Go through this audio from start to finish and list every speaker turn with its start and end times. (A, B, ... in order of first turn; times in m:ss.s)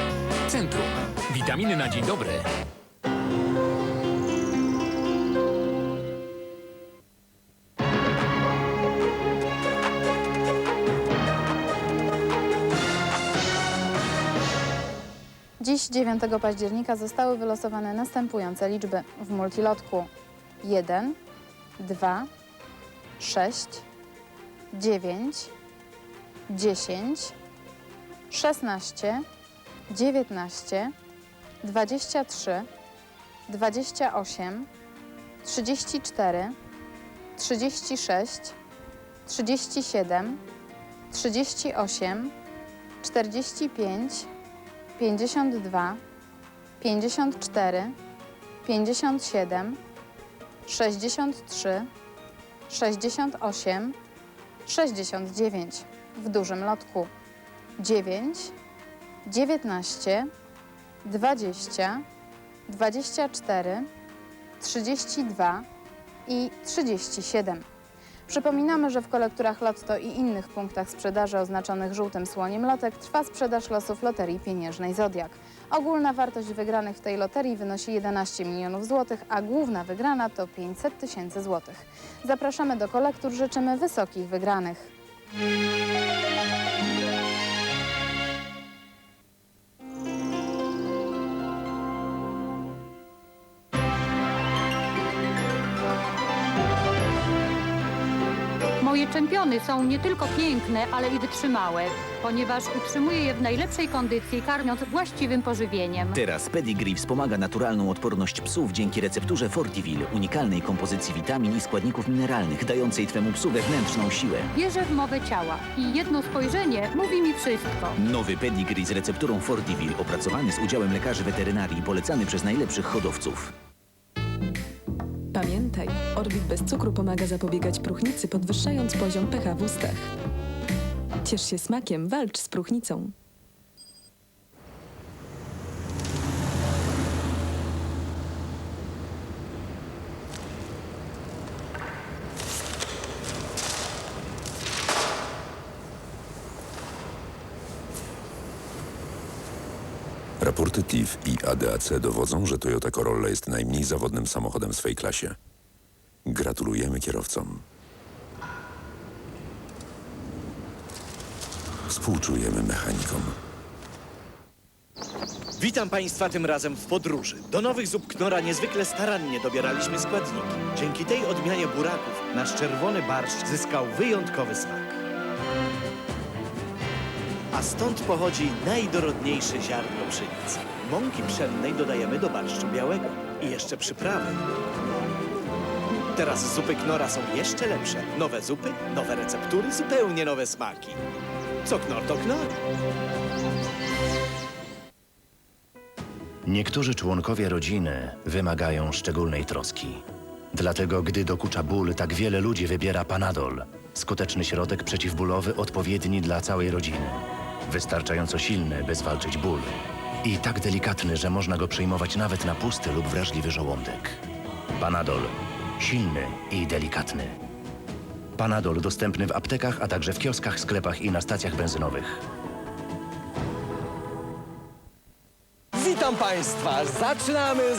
0:00.5-0:02.5 A
0:15.6-0:20.1 B
0:20.6-0:21.2 B
0:21.8-0:22.3 B
0:23.2-0:23.8 B
0:24.7-0:25.5 B
0:26.5-0:27.3 B
0:28.3-0:29.2 B
0:29.9-0:30.9 B
0:31.6-0:32.6 B
0:33.5-0:34.7 B
0:35.4-0:36.5 B
0:37.4-0:38.5 B
0:39.3-0:40.4 B
0:41.1-0:42.3 B
0:43.0-0:44.3 B
0:45.0-0:46.0 B
0:46.8-0:47.9 B
0:48.6-0:49.8 B
0:50.6-0:51.9 B
0:52.7-0:53.9 B
0:54.6-0:57.1 B
0:57.8-0:58.5 B
0:59.2-1:00.3 B
1:01.0-1:02.0 B
1:02.7-1:03.9 B
1:04.6-1:05.6 B
1:06.2-1:07.6 B
1:08.3-1:24.9 B
1:38.8-1:46.2 C
1:46.1-1:54.5 D
1:54.5-1:58.0 C
1:58.0-2:03.5 D
2:05.3-2:10.1 E
2:11.2-2:13.1 E
2:30.4-2:35.4 F
2:36.2-2:37.6 F
2:41.9-2:43.4 F
2:45.6-2:55.0 G
2:57.5-3:04.4 G
3:06.1-3:11.0 G
3:11.6-3:12.6 G
3:16.4-3:20.0 H
3:20.5-3:34.2 H
3:34.8-3:37.4 H
3:38.4-3:42.2 H